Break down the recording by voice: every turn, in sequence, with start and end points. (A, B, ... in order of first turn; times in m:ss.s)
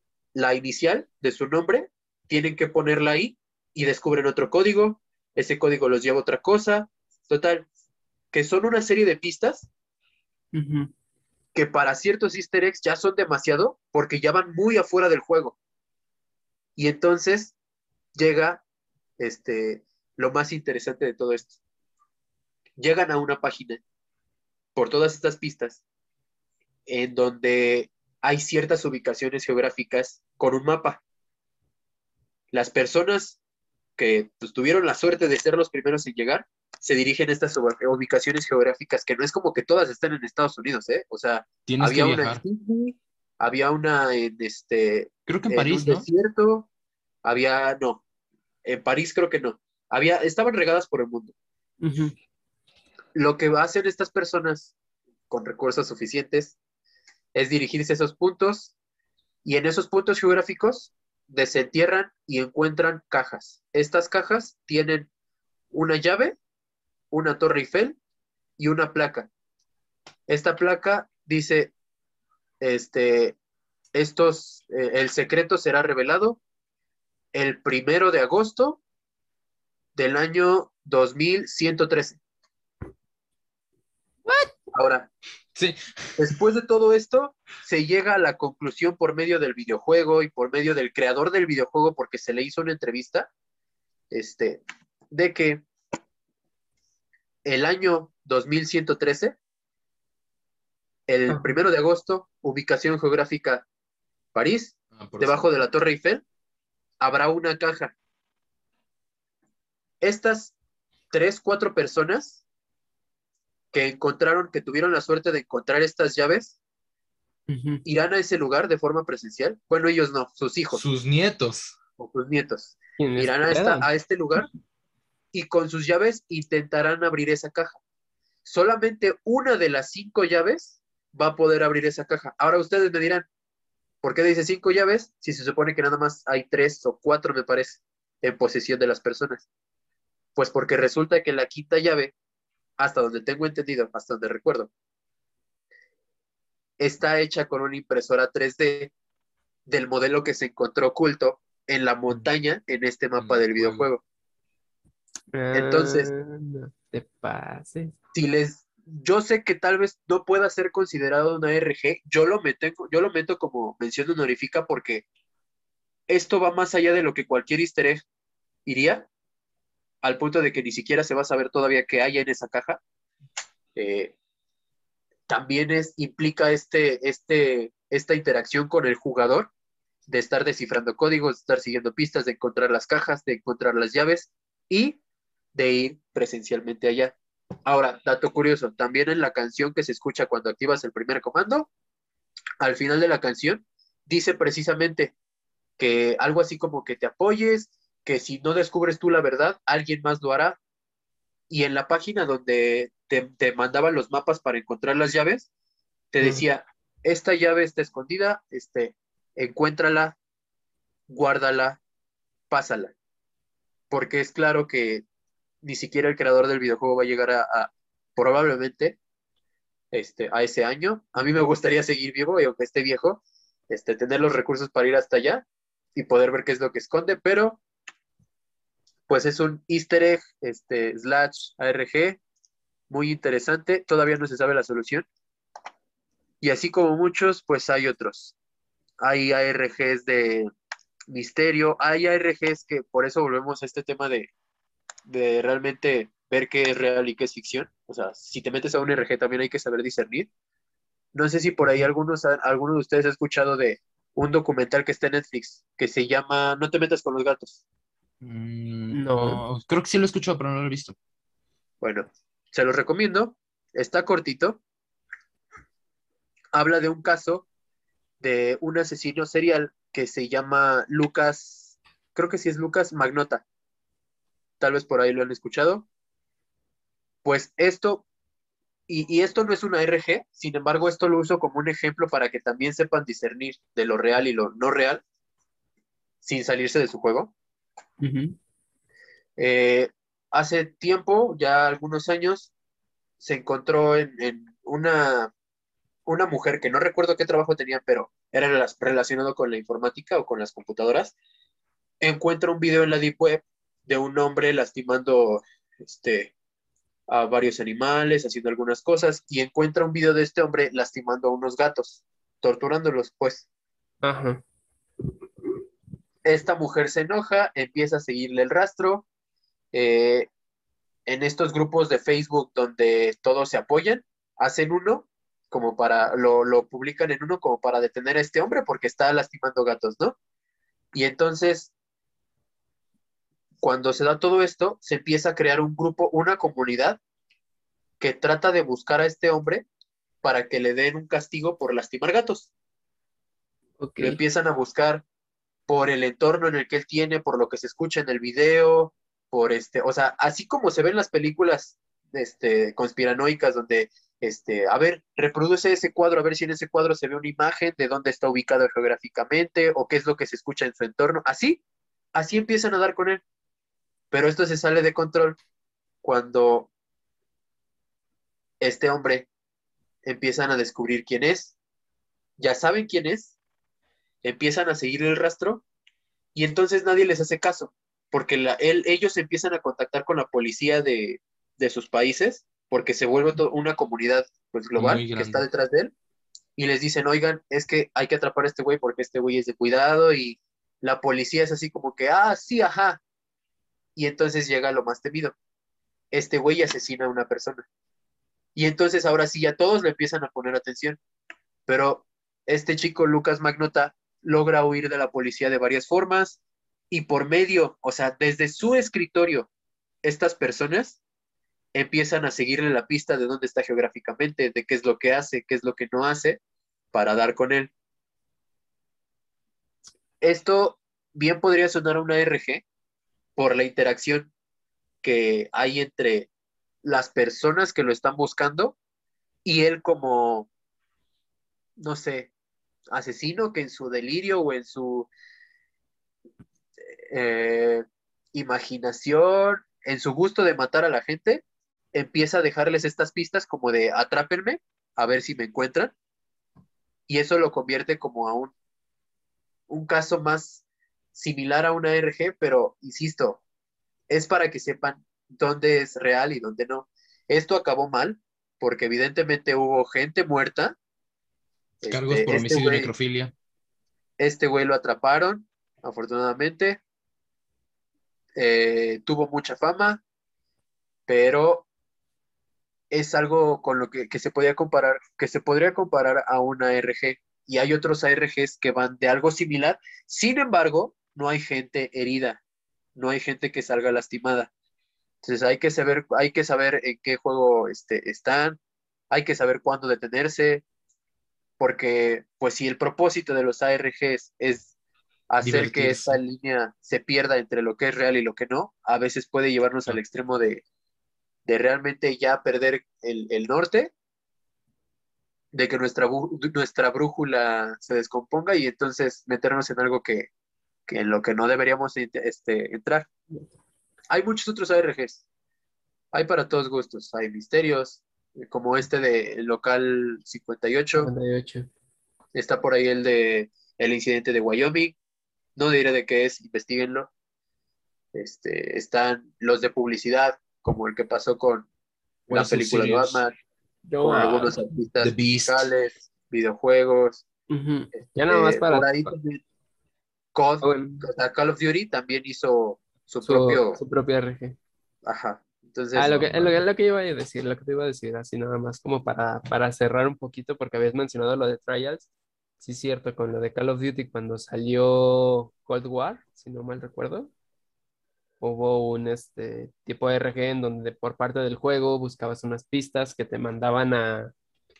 0:00.3-0:07.6 A
0:08.3-0:09.7 A
0:10.5-0:10.9 B
0:11.5-0:15.6 A
0:16.8-0:17.5 A
0:18.1-0:18.6 A
0:19.2-0:21.6 A
0:22.8-0:23.8 A
0:24.8-0:25.8 A
0:26.9-0:31.0 A
0:32.5-0:33.4 A
0:34.0-0:46.7 A
0:41.6-0:42.4 C
0:45.3-0:46.1 C
0:47.2-0:48.0 A
0:48.6-0:51.3 A
0:51.8-0:52.1 B
0:53.1-0:54.7 A
0:55.3-0:56.6 A
0:57.3-0:58.7 A
0:59.4-1:05.1 A
1:05.7-1:06.4 A
1:07.1-1:08.0 A
1:08.6-1:09.3 A
1:10.3-1:11.7 A
1:12.6-1:13.4 A
1:13.9-1:16.4 A
1:17.3-1:18.8 A
1:19.9-1:22.2 A
1:24.7-1:25.1 A
1:25.5-1:26.3 C
1:26.2-1:33.3 A
1:34.1-1:35.6 A
1:37.4-1:39.4 A
1:41.1-1:43.6 A
1:44.3-1:46.2 A
1:44.9-1:45.4 C
1:47.0-1:47.9 A
1:50.0-1:50.5 A
1:51.1-1:52.4 A
1:53.7-1:56.5 A
1:57.5-1:57.8 B
1:57.8-2:00.8 A
2:00.7-2:01.8 C
2:02.0-2:04.5 A
2:03.0-2:03.9 B
2:05.3-2:07.8 A
2:08.4-2:13.2 A
2:14.0-2:19.4 A
2:20.4-2:22.1 A
2:22.8-2:24.7 A
2:26.8-2:28.9 A
2:29.7-2:34.0 A
2:33.2-2:33.9 C
2:35.3-2:37.9 B
2:35.5-2:36.1 A
2:38.1-2:45.0 A
2:46.1-2:48.0 A
2:48.6-2:49.1 A
2:50.0-2:52.8 A
2:53.8-2:54.1 A
2:55.3-2:59.5 A
3:00.1-3:05.0 A
3:05.5-3:11.7 A
3:12.6-3:15.1 A
3:15.8-3:20.6 A
3:21.5-3:25.5 A
3:26.1-3:30.2 A
3:31.1-3:31.8 A
3:32.5-3:32.9 A
3:33.9-3:35.0 A
3:35.6-3:39.0 A
3:39.9-3:47.6 A
3:49.1-3:52.2 A
3:52.9-3:55.0 A
3:56.4-3:58.3 A
3:59.0-4:00.5 A
4:01.1-4:04.3 A
4:05.1-4:10.3 A
4:11.1-4:17.6 A
4:11.6-4:11.9 B
4:18.2-4:21.0 C
4:18.9-4:19.4 B
4:21.8-4:24.6 A
4:26.5-4:27.4 A
4:28.2-4:33.4 A
4:34.6-4:35.8 A
4:37.2-4:38.0 A
4:38.9-4:45.0 A
4:46.2-4:47.3 A
4:48.0-4:48.3 B
4:49.4-4:52.5 A
4:53.2-4:55.3 A
4:56.0-5:01.1 A
5:02.0-5:06.3 A
5:07.1-5:13.4 A
5:14.0-5:14.4 B
5:16.2-5:19.0 A
5:19.7-5:20.3 A
5:21.1-5:30.2 A
5:30.9-5:31.7 A
5:33.6-5:37.0 A
5:38.0-5:39.6 A
5:40.2-5:42.5 A
5:43.8-5:44.2 B
5:44.0-5:45.0 A
5:45.7-6:01.6 A
6:02.1-6:03.2 A
6:04.1-6:05.4 A
6:06.0-6:06.7 A
6:08.6-6:09.3 A
6:10.0-6:11.5 A
6:12.4-6:13.3 A
6:14.2-6:15.6 A
6:16.3-6:25.9 A
6:24.7-6:25.4 C
6:26.6-6:33.0 A
6:34.0-6:35.3 A
6:36.1-6:37.6 A
6:38.5-6:41.0 A
6:41.7-6:46.4 A
6:46.9-6:49.5 A
6:50.0-6:51.0 A
6:51.7-6:56.4 A
6:56.9-6:57.7 A
7:00.2-7:02.6 A
7:03.4-7:04.3 A
7:05.0-7:06.3 A
7:06.8-7:08.8 A
7:09.4-7:10.5 A
7:11.8-7:12.3 A
7:12.9-7:15.1 A
7:17.1-7:21.4 A
7:21.9-7:25.9 A
7:27.1-7:28.5 A
7:29.7-7:30.6 A
7:31.1-7:33.4 A
7:34.1-7:40.7 A
7:41.8-7:42.9 A
7:41.9-7:43.3 C
7:44.2-7:46.8 A
7:48.3-7:50.0 A
7:51.1-7:51.7 A
7:52.9-8:02.4 A
8:03.0-8:04.5 A
8:05.2-8:08.6 A
8:09.1-8:10.6 A
8:11.6-8:14.7 A
8:15.3-8:20.6 A
8:15.4-8:16.2 C
8:21.4-8:23.9 A
8:25.5-8:30.3 A
8:30.9-8:33.1 A
8:34.1-8:35.2 A
8:36.1-8:41.1 A
8:40.9-8:41.7 B
8:42.3-8:45.0 A
8:45.6-8:47.1 A
8:48.1-8:51.7 A
8:52.3-8:53.2 C
8:52.3-8:53.3 A
8:53.8-8:54.6 B
8:54.0-8:57.2 A
8:55.0-8:55.7 C
8:57.5-8:59.1 B
8:58.3-8:59.4 A
9:00.3-9:03.8 A
9:00.6-9:01.1 B
9:03.2-9:04.6 B
9:05.0-9:06.4 A
9:05.9-9:12.1 B
9:12.6-9:17.3 B
9:18.4-9:24.3 B